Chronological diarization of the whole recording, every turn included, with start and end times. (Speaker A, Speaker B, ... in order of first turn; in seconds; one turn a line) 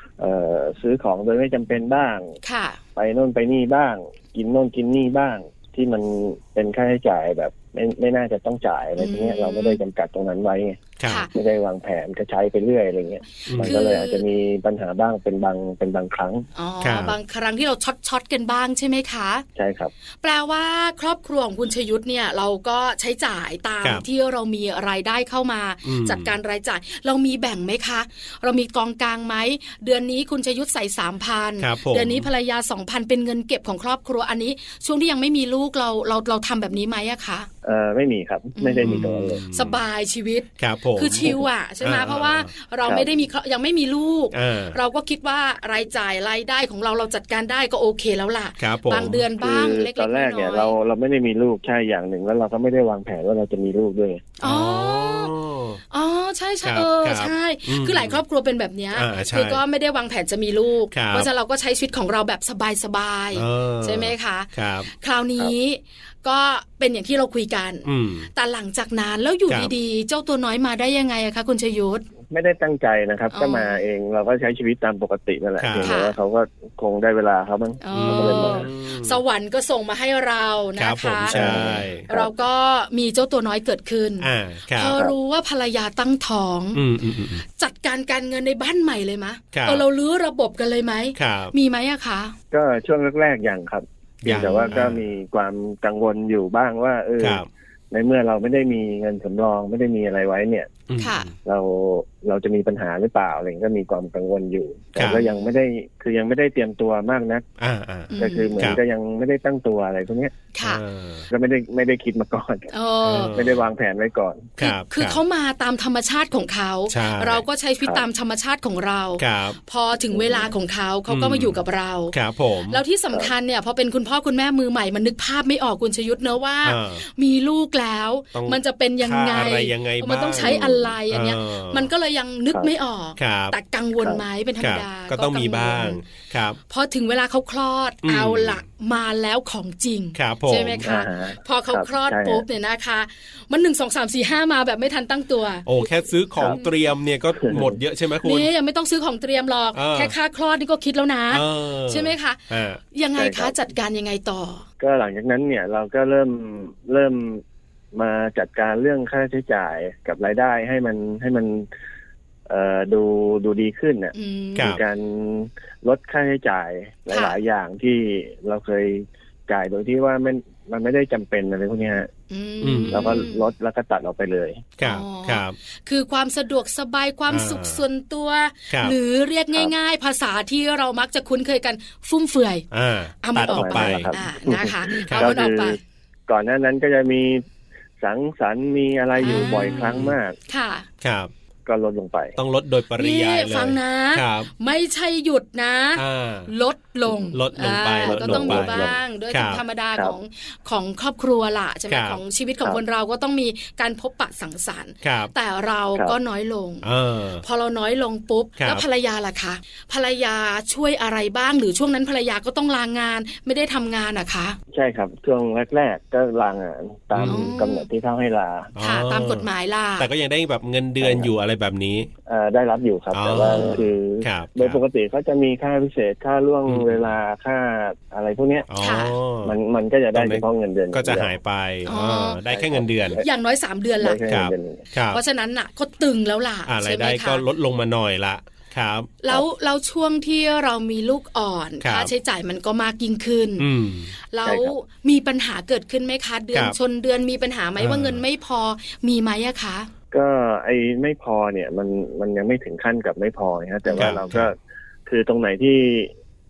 Speaker A: 0.2-2.4
Speaker B: 2.4-2.8
Speaker A: 3.0-10.8
Speaker B: 9.0-9.8
Speaker C: 11.0-11.3
Speaker B: 11.0-11.3
Speaker A: 11.3-16.5
Speaker C: 13.5-13.8
Speaker B: 13.6-14.2
Speaker B: 16.5-19.4
Speaker C: 16.8-17.1
Speaker A: 19.6-19.9
Speaker B: 20.2-37.5
Speaker C: 25.9-26.3
Speaker C: 31.6-32.2
Speaker A: 37.6-39.4
Speaker B: 38.5-50.7
Speaker C: 38.8-39.8
Speaker C: 40.6-41.3
Speaker A: 41.2-41.5
Speaker C: 41.8-42.5
Speaker A: 42.8-43.1
Speaker C: 44.3-44.8
Speaker C: 48.6-49.2
Speaker A: 49.4-54.3
Speaker B: 54.4-55.3
Speaker C: 54.4-55.8
Speaker B: 55.9-72.0
Speaker C: 56.6-58.2
Speaker C: 58.9-59.6
Speaker C: 60.9-61.3
Speaker C: 63.3-64.9
Speaker C: 67.8-68.3
Speaker C: 69.5-69.7
Speaker A: 72.3-78.7
Speaker B: 73.3-73.8
Speaker C: 75.6-75.9
Speaker B: 75.8-76.1
Speaker B: 77.8-86.8
Speaker C: 77.9-79.2
Speaker C: 80.8-82.0
Speaker A: 81.3-82.3
Speaker C: 84.2-85.0
Speaker A: 84.9-85.1
Speaker C: 86.7-87.4
Speaker B: 87.5-92.3
Speaker C: 89.5-89.8
Speaker C: 91.2-91.5
Speaker A: 92.5-100.7
Speaker C: 94.2-95.0
Speaker B: 94.3-94.8
Speaker C: 97.2-97.5
Speaker C: 100.9-101.3
Speaker B: 101.0-101.3
Speaker A: 101.4-107.5
Speaker C: 105.0-105.2
Speaker B: 105.1-105.4
Speaker C: 107.6-108.8
Speaker B: 108.1-108.7
Speaker A: 108.2-110.4
Speaker B: 110.5-110.8
Speaker C: 110.6-111.2
Speaker A: 111.3-114.5
Speaker B: 112.7-113.3
Speaker C: 113.0-113.6
Speaker C: 114.6-115.2
Speaker B: 114.6-122.1
Speaker C: 116.9-117.4
Speaker C: 119.2-119.6
Speaker A: 120.1-120.5
Speaker C: 121.1-121.6
Speaker C: 122.1-122.8
Speaker B: 122.7-136.0
Speaker C: 126.6-127.0
Speaker C: 128.3-131.9
Speaker A: 130.4-130.9
Speaker C: 133.2-133.5
Speaker C: 134.6-136.6
Speaker B: 136.7-145.9
Speaker C: 138.0-138.6
Speaker C: 140.2-140.8
Speaker A: 140.8-142.4
Speaker C: 145.7-148.5
Speaker A: 147.3-147.8
Speaker B: 148.2-152.4
Speaker C: 149.7-150.1
Speaker C: 151.3-152.8
Speaker B: 152.9-154.6
Speaker A: 153.2-153.6
Speaker A: 154.8-157.4
Speaker A: 157.9-161.7
Speaker A: 162.5-172.1
Speaker B: 164.1-164.8
Speaker B: 167.1-167.4
Speaker B: 172.3-173.4
Speaker C: 172.6-173.2
Speaker A: 172.9-174.7
Speaker C: 174.8-175.5
Speaker B: 174.8-182.7
Speaker C: 177.3-177.8
Speaker C: 178.7-178.9
Speaker C: 182.7-184.1
Speaker B: 183.2-185.8
Speaker A: 183.5-187.5
Speaker C: 185.1-185.4
Speaker A: 188.0-190.4
Speaker B: 189.2-189.7
Speaker C: 189.2-190.2
Speaker B: 190.5-190.8
Speaker C: 191.0-191.3
Speaker A: 191.7-192.4
Speaker C: 192.4-194.5
Speaker B: 192.9-206.9
Speaker C: 195.9-196.5
Speaker C: 197.3-199.6
Speaker A: 198.1-199.0
Speaker C: 201.9-202.2
Speaker C: 205.0-205.3
Speaker C: 206.8-207.4
Speaker B: 207.4-214.6
Speaker C: 208.6-208.8
Speaker A: 214.7-218.7
Speaker C: 217.1-217.5
Speaker B: 217.3-217.9
Speaker C: 218.8-219.5
Speaker B: 218.8-220.1
Speaker C: 220.0-222.1
Speaker A: 221.0-221.3
Speaker A: 222.2-228.7
Speaker C: 223.1-224.8
Speaker C: 226.7-227.1
Speaker C: 228.7-229.6
Speaker B: 228.8-229.1
Speaker A: 229.4-231.3
Speaker C: 230.1-233.2
Speaker B: 231.8-232.4
Speaker A: 232.5-233.3
Speaker B: 233.2-234.2
Speaker A: 234.0-234.8
Speaker C: 234.3-235.2
Speaker B: 235.1-237.4
Speaker C: 236.7-239.2
Speaker B: 239.2-243.7
Speaker C: 241.8-242.1
Speaker C: 243.6-244.1
Speaker B: 244.3-249.9
Speaker A: 244.4-244.7
Speaker C: 247.8-248.2
Speaker A: 250.1-256.1
Speaker B: 253.8-254.2
Speaker C: 254.0-254.5